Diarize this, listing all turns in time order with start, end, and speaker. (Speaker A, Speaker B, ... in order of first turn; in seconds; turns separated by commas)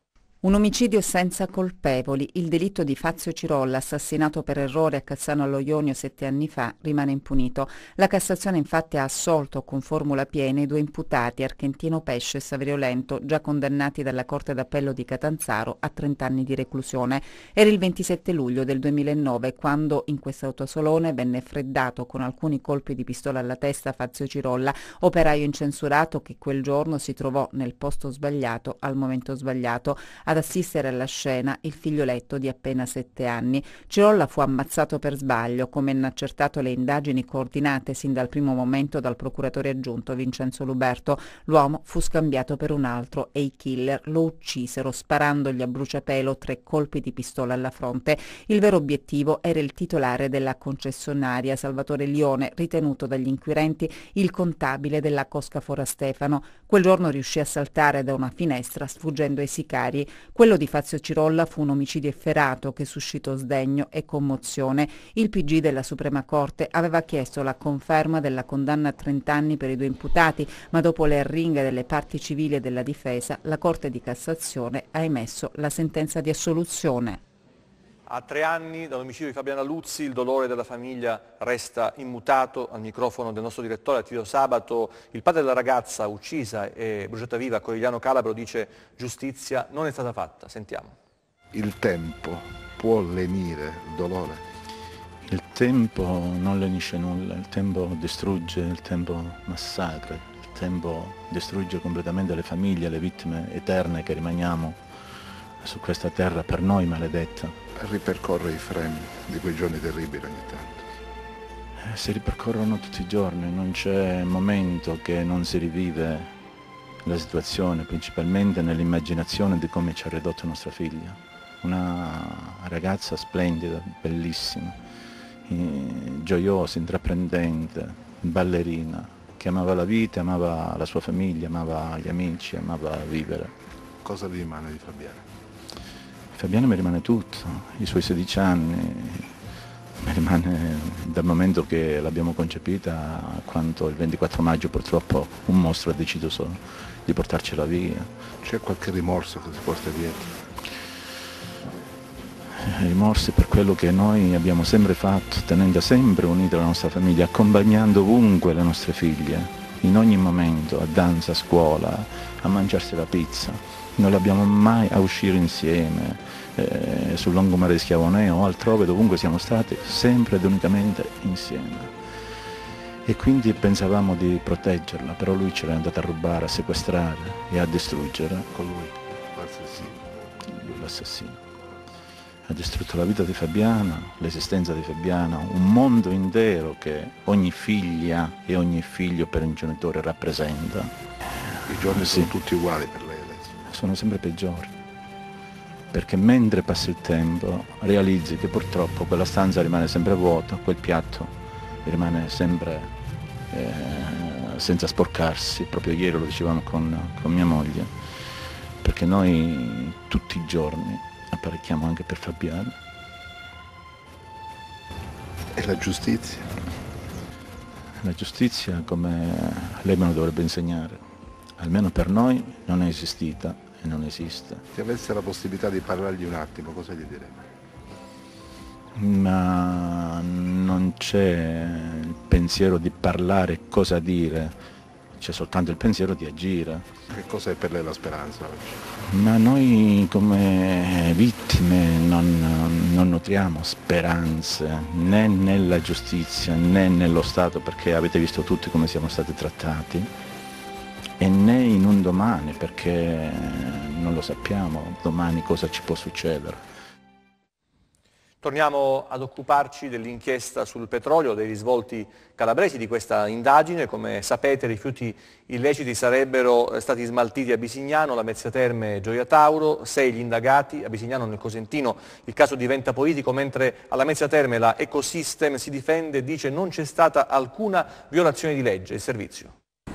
Speaker A: 0.4-77.2, Speaker B: 78.1-90.9, Speaker C: 91.5-94.4, Speaker D: 95.2-104.8, Speaker D: 105.6-107.6, Speaker C: 107.8-110.8, Speaker D: 111.8-116.3, Speaker D: 117.0-124.8, Speaker D: 125.5-133.5, Speaker C: 134.0-135.2, Speaker D: 136.3-139.3, Speaker D: 140.0-148.1, Speaker C: 148.4-150.4, Speaker D: 152.6-171.9, Speaker D: 173.1-178.5, Speaker C: 178.5-180.0, Speaker D: 180.4-181.4, Speaker D: 182.5-192.3, Speaker C: 191.7-193.6, Speaker D: 193.7-194.7, Speaker D: 195.9-202.9, Speaker D: 203.5-207.9, Speaker D: 208.8-212.7, Speaker C: 215.5-216.5, Speaker D: 218.0-221.0, Speaker D: 221.6-224.6, Speaker C: 224.7-227.4, Speaker D: 228.9-234.6, Speaker D: 235.2-236.9, Speaker C: 237.1-238.8, Speaker D: 239.0-250.1, Speaker D: 251.2-256.6, Speaker B: 258.4-279.5